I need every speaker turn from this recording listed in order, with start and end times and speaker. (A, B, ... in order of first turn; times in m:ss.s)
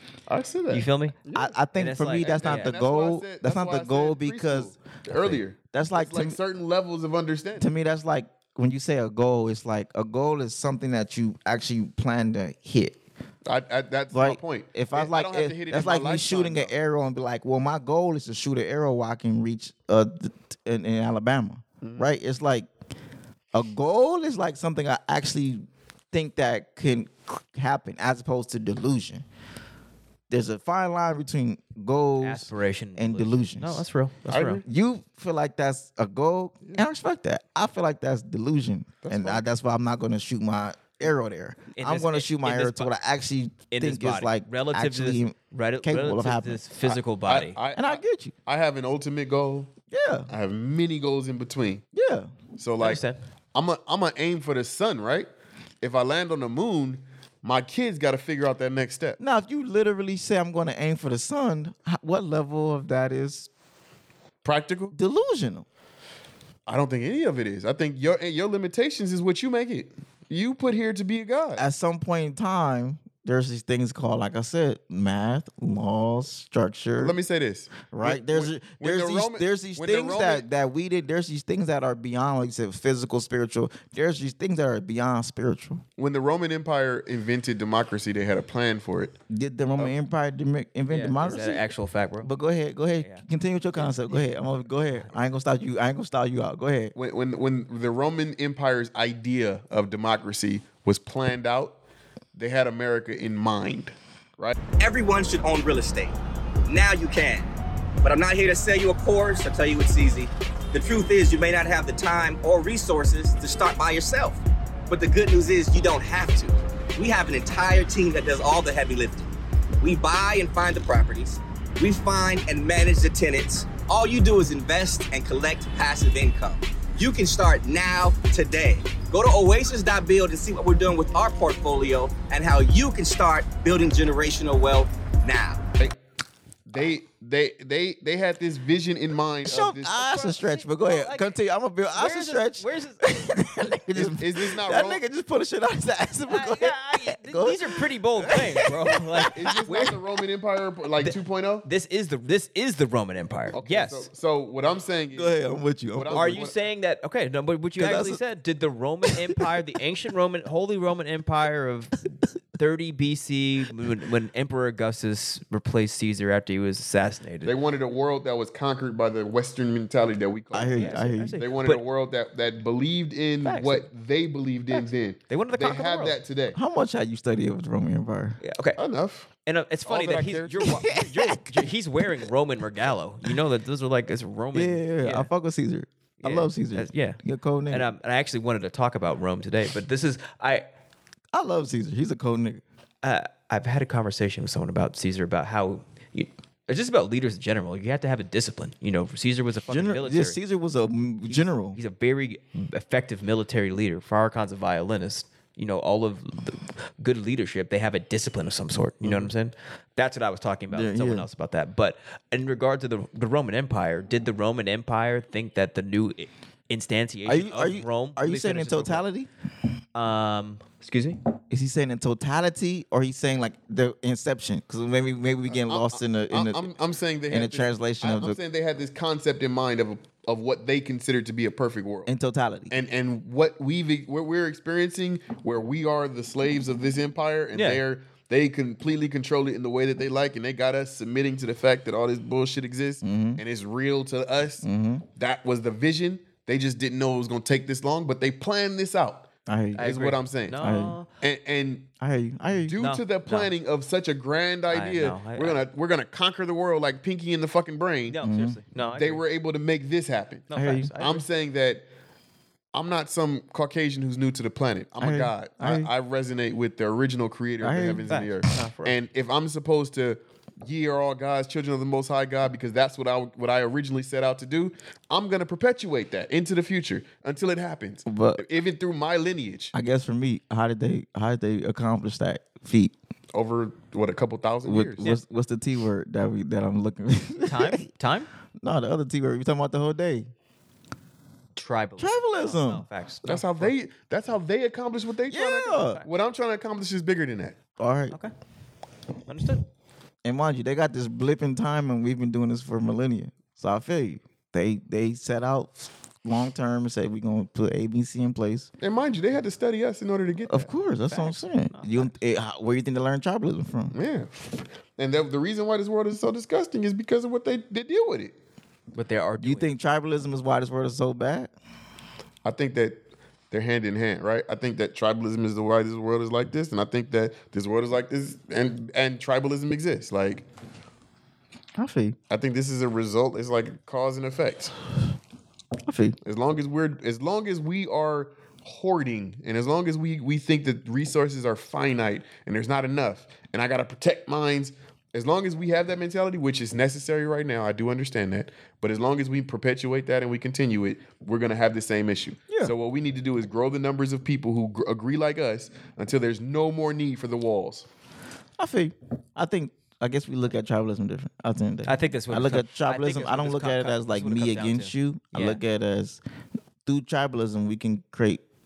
0:00.3-0:01.6 A
0:00.7-0:01.2 B
0:01.3-0:06.4 C
0:01.8-0:02.7 B
0:02.2-0:07.7 A
0:07.6-0:13.0 C
0:13.4-0:16.7 A
0:14.1-0:22.7 C
0:21.8-0:22.1 A
0:23.5-0:29.2 C
0:30.3-0:33.8 C
0:32.2-0:34.6 B
0:34.3-0:34.6 A
0:34.6-0:46.6 C
0:39.0-0:39.4 A
0:41.7-0:42.9 B
0:43.7-0:47.6 B
0:46.8-0:49.7 A
0:47.7-0:48.3 C
0:49.9-0:50.3 C
0:50.3-0:51.8 A
0:51.9-0:52.3 C
0:52.6-0:53.0 A
0:52.8-0:53.2 B
0:53.5-0:55.3 A
0:55.8-0:59.2 A
0:59.2-1:03.5 C
1:04.4-1:04.9 A
1:04.9-1:05.6 C
1:06.7-1:11.6 A
1:11.6-1:17.2 C
1:17.0-1:20.4 A
1:17.9-1:25.8 C
1:26.0-1:29.2 A
1:29.3-1:31.6 C
1:30.9-1:32.3 B
1:32.2-1:36.9 C
1:33.8-1:34.3 B
1:36.9-1:41.8 A
1:42.4-1:44.6 A
1:44.8-1:46.2 D
1:46.7-1:47.5 D
1:48.0-1:59.3 D
1:59.8-2:15.6 D
2:16.7-2:20.1 A
2:19.4-2:30.0 C
2:20.0-2:21.3 B
2:21.9-2:23.0 B
2:23.9-2:25.0 A
2:26.3-2:29.9 B
2:29.3-2:31.6 A
2:31.0-2:34.1 B
2:33.5-2:35.4 A
2:35.1-2:36.5 C
2:35.9-2:36.6 A
2:36.1-2:47.5 B
2:37.8-2:38.2 C
2:39.0-2:39.4 C
2:47.4-2:56.6 A
2:50.5-2:51.4 C
2:50.7-2:51.8 B
2:53.4-2:53.8 B
2:54.7-2:56.2 B
2:56.5-2:58.4 C
2:58.4-2:58.8 B
2:58.8-2:59.3 A
2:59.4-3:05.3 B
2:59.8-3:00.9 A
3:00.6-3:01.6 C
3:04.5-3:07.8 C
3:06.2-3:10.6 B
3:11.3-3:12.6 C
3:13.0-3:20.4 B
3:19.7-3:21.8 C
3:21.3-3:39.0 B
3:30.7-3:31.3 C
3:37.2-3:39.3 C
3:39.9-3:41.2 B
3:41.5-3:46.7 C
3:45.5-3:52.1 A
3:47.3-3:48.4 C
3:52.0-3:52.7 C
3:52.7-4:10.6 A
3:57.5-3:57.8 B
4:03.0-4:03.4 C
4:04.6-4:05.0 C
4:09.5-4:09.9 C
4:09.8-4:11.1 B
4:10.6-4:11.0 C
4:11.2-4:11.9 A
4:12.0-4:12.8 C
4:12.5-4:18.2 A
4:12.8-4:13.5 B
4:14.7-4:15.6 B
4:18.1-4:19.2 B
4:18.2-4:18.6 C
4:18.9-4:21.8 A
4:20.5-4:21.2 B
4:20.5-4:20.9 C
4:22.7-4:39.7 A
4:25.0-4:25.9 C
4:27.6-4:28.5 C
4:28.0-4:29.0 B
4:38.0-4:38.4 C
4:39.7-4:42.9 C
4:43.3-4:45.0 A
4:44.6-4:47.8 C
4:47.4-4:48.3 B
4:48.6-4:50.3 C
4:51.6-4:53.7 B
4:52.0-4:52.8 C
4:53.2-4:57.6 A
4:55.3-4:56.0 C
4:57.8-4:58.2 C
4:59.3-4:59.6 B
5:00.2-5:08.7 C
5:08.8-5:10.7 A
5:10.5-5:13.9 C
5:11.1-5:12.1 B
5:13.9-5:18.3 A
5:18.9-5:19.7 B
5:19.4-5:21.5 C
5:22.4-5:23.0 A
5:23.5-5:30.4 A
5:31.8-5:32.2 C
5:32.3-5:34.7 A
5:35.8-5:36.2 C
5:36.2-5:57.9 A
5:58.6-6:06.2 C
6:01.8-6:05.6 B
6:06.8-6:08.4 C